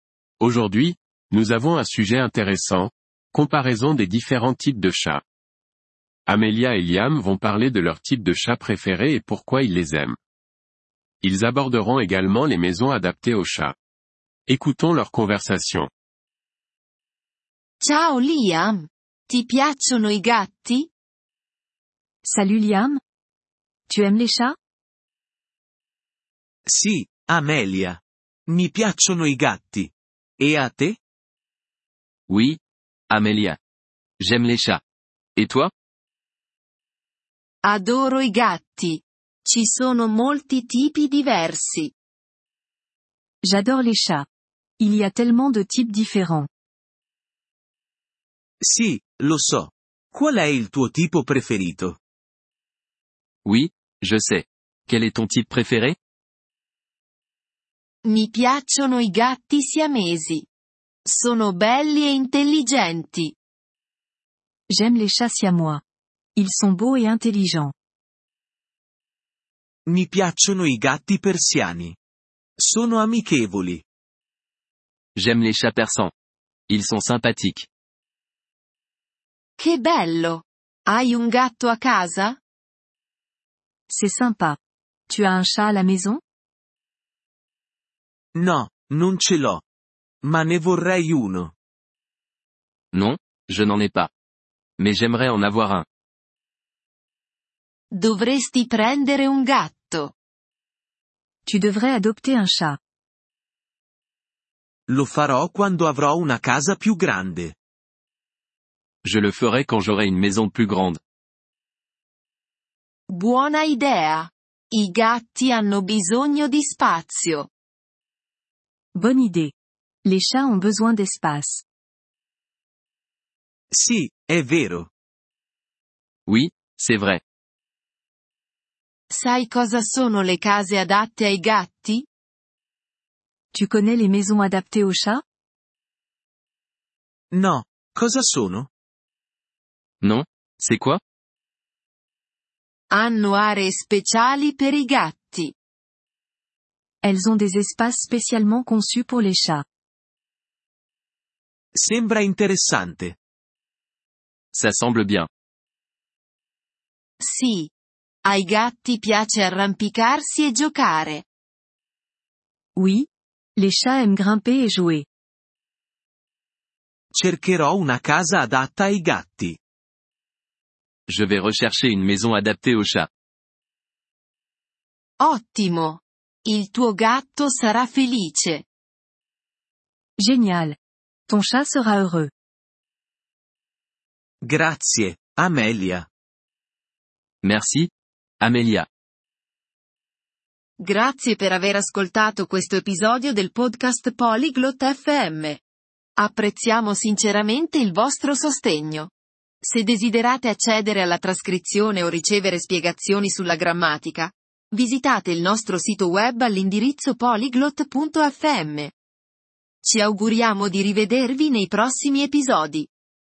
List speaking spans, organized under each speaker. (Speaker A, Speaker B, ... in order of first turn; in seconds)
Speaker A: 0.4-5.2, 6.3-10.2, 11.2-13.8, 14.5-15.9
Speaker B: 17.8-20.9, 37.6-41.9, 58.0-60.5, 61.0-63.4, 79.6-82.4, 97.9-100.1, 113.1-117.5, 129.1-132.1, 142.9-145.5, 157.2-157.7, 158.2-161.2, 175.2-178.6, 190.8-195.6, 196.2-199.1, 199.6-208.9, 209.8-212.9
Speaker C: 22.2-23.0, 23.9-24.6, 43.4-44.3, 44.8-46.5, 64.7-65.8, 66.4-67.7, 83.9-84.6, 85.1-86.2, 101.5-102.8, 118.9-119.5, 120.0-121.6, 133.5-135.2, 147.0-149.7, 162.8-165.1, 180.2-182.3
Speaker D: 26.7-31.0, 48.6-52.0, 69.9-72.0, 72.6-73.8, 88.3-89.6, 90.2-91.5, 104.9-107.5, 123.7-124.9, 137.3-138.7, 151.7-153.2, 167.1-169.6, 184.4-186.1
Speaker E: 32.3-32.6, 33.1-33.6, 34.2-34.8, 35.4-35.7, 53.5-56.0, 75.2-76.1, 76.7-77.7, 92.9-94.1, 94.8-95.8, 109.0-111.0, 126.3-127.2, 140.0-141.0, 154.5-155.3, 171.1-173.1, 187.4-188.9